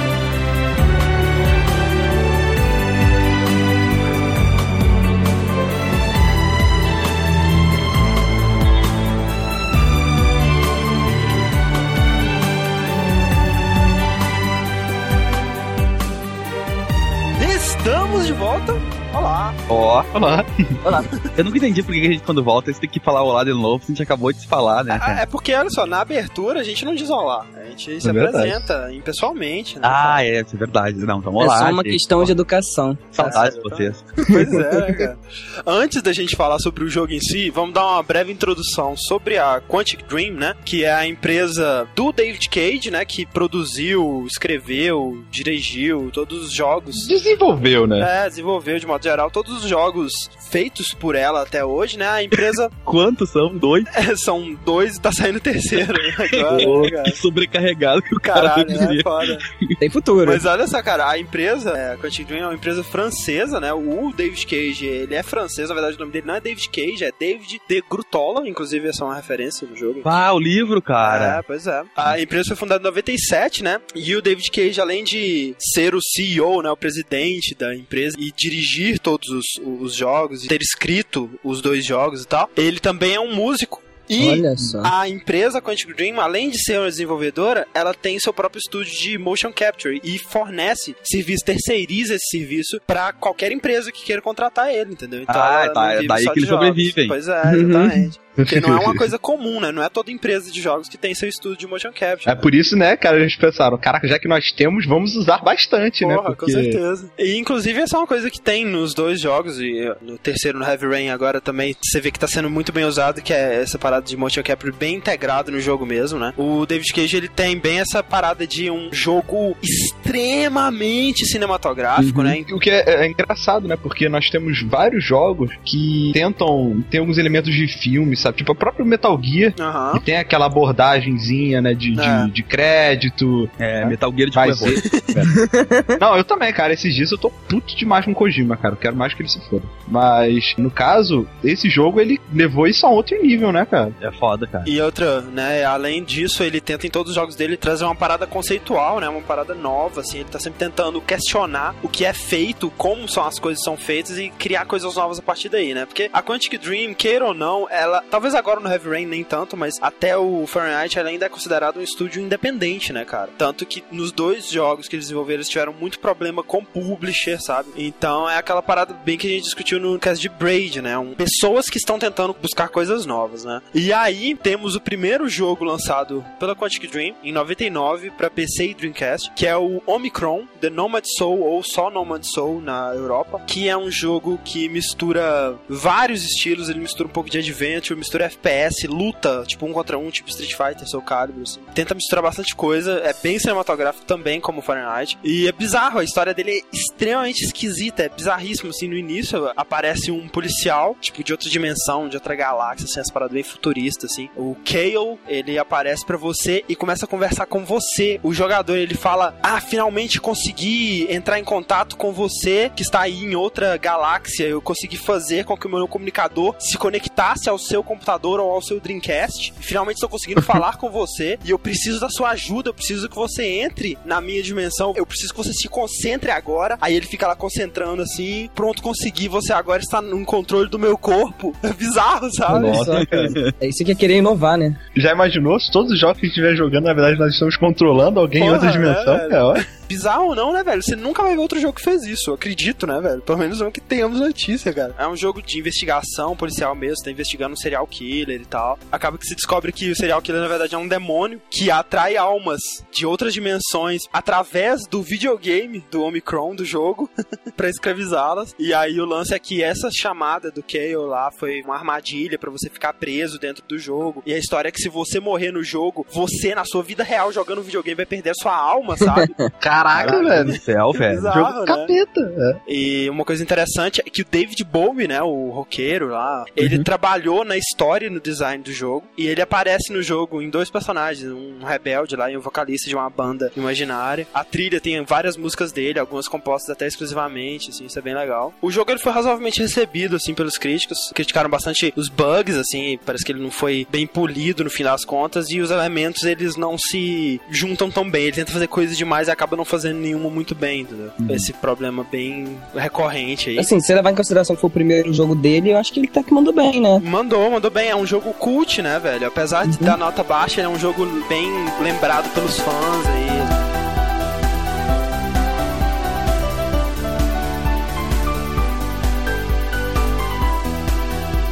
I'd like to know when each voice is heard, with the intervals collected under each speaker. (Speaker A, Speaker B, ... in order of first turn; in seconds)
Speaker A: 17.4-19.6, 21.0-21.3, 24.9-30.2, 33.2-47.1, 48.0-52.7, 53.9-57.2, 58.2-59.4, 60.2-70.1, 71.0-102.4, 106.0-122.4, 129.6-130.0, 131.9-132.3, 134.7-135.1, 144.6-232.9, 238.3-269.3, 270.0-271.9, 272.7-303.7, 307.0-313.5
Speaker B: 19.7-20.1, 21.4-25.2, 29.8-32.3, 33.2-34.1, 52.8-53.9, 56.4-59.8, 70.0-71.4, 95.3-97.2, 122.0-122.4, 133.6-134.8, 144.0-144.7, 233.0-233.5, 269.9-271.3
Speaker C: 20.1-20.7, 28.0-28.7, 46.9-48.1, 98.4-99.0, 102.2-106.8, 122.4-135.3, 136.0-144.0, 232.5-233.3, 234.9-239.6, 269.6-270.6, 271.3-272.6
Speaker D: 31.4-33.5, 34.3-35.0, 59.8-60.4, 84.2-84.9, 97.4-98.0, 135.2-136.0, 232.5-234.8, 269.1-269.5, 303.6-307.0, 309.6-309.9